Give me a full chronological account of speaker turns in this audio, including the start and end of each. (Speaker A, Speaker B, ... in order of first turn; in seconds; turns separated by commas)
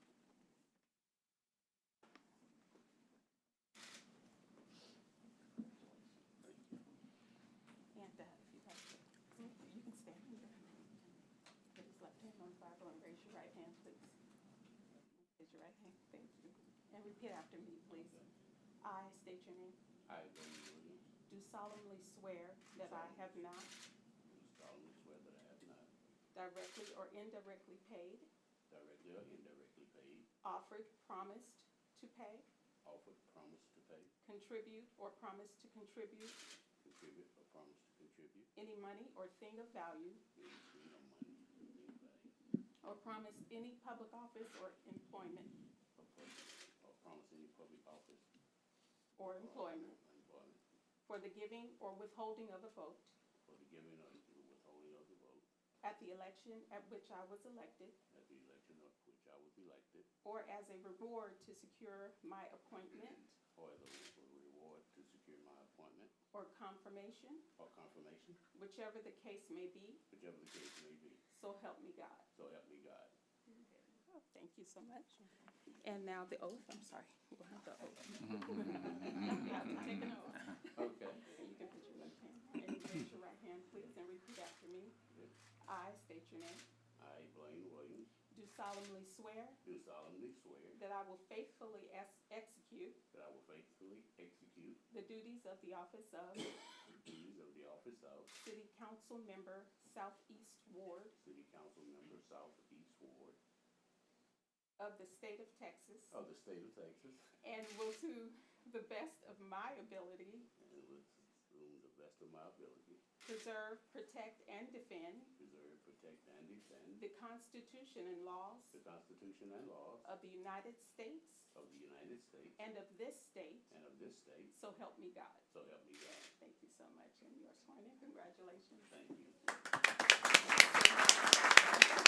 Speaker A: 6.4-6.8, Speaker B: 7.9-11.1, Speaker B: 11.7-14.2, Speaker B: 15.1-18.2, Speaker A: 17.9-18.3, Speaker B: 18.8-19.8, Speaker A: 20.1-21.1, Speaker B: 21.3-23.8, Speaker A: 22.8-23.4, Speaker A: 24.3-25.9, Speaker B: 26.3-28.3, Speaker A: 28.7-30.3, Speaker B: 30.4-32.5, Speaker A: 32.8-34.1, Speaker B: 34.2-36.4, Speaker A: 36.8-38.5, Speaker B: 38.5-40.2, Speaker A: 40.4-42.4, Speaker B: 42.8-45.5, Speaker A: 46.0-48.3, Speaker B: 49.2-50.0, Speaker A: 49.2-50.6, Speaker B: 51.0-53.1, Speaker A: 53.5-55.5, Speaker B: 55.8-58.0, Speaker A: 58.1-60.1, Speaker B: 60.2-63.4, Speaker A: 63.5-66.1, Speaker B: 66.3-67.5, Speaker A: 67.6-68.4, Speaker B: 68.5-70.0, Speaker A: 70.1-71.2, Speaker B: 71.3-72.3, Speaker A: 72.3-73.1, Speaker B: 74.0-75.3, Speaker B: 75.8-85.0, Speaker A: 80.7-81.2, Speaker B: 85.6-86.7, Speaker A: 87.0-88.1, Speaker B: 88.3-89.6, Speaker A: 89.6-90.8, Speaker B: 90.8-93.0, Speaker A: 93.1-94.8, Speaker B: 94.9-96.5, Speaker A: 96.9-98.4, Speaker B: 98.4-101.2, Speaker A: 101.2-103.4, Speaker B: 104.8-106.2, Speaker A: 106.1-107.3, Speaker B: 107.4-110.5, Speaker A: 110.6-113.0, Speaker B: 113.2-115.3, Speaker A: 115.4-117.0, Speaker B: 117.0-118.8, Speaker A: 118.7-120.1, Speaker B: 120.0-121.5, Speaker A: 121.5-122.6, Speaker B: 122.6-123.7, Speaker A: 123.7-124.6, Speaker B: 124.5-125.5, Speaker A: 125.5-126.3, Speaker B: 126.2-128.9, Speaker A: 128.8-129.5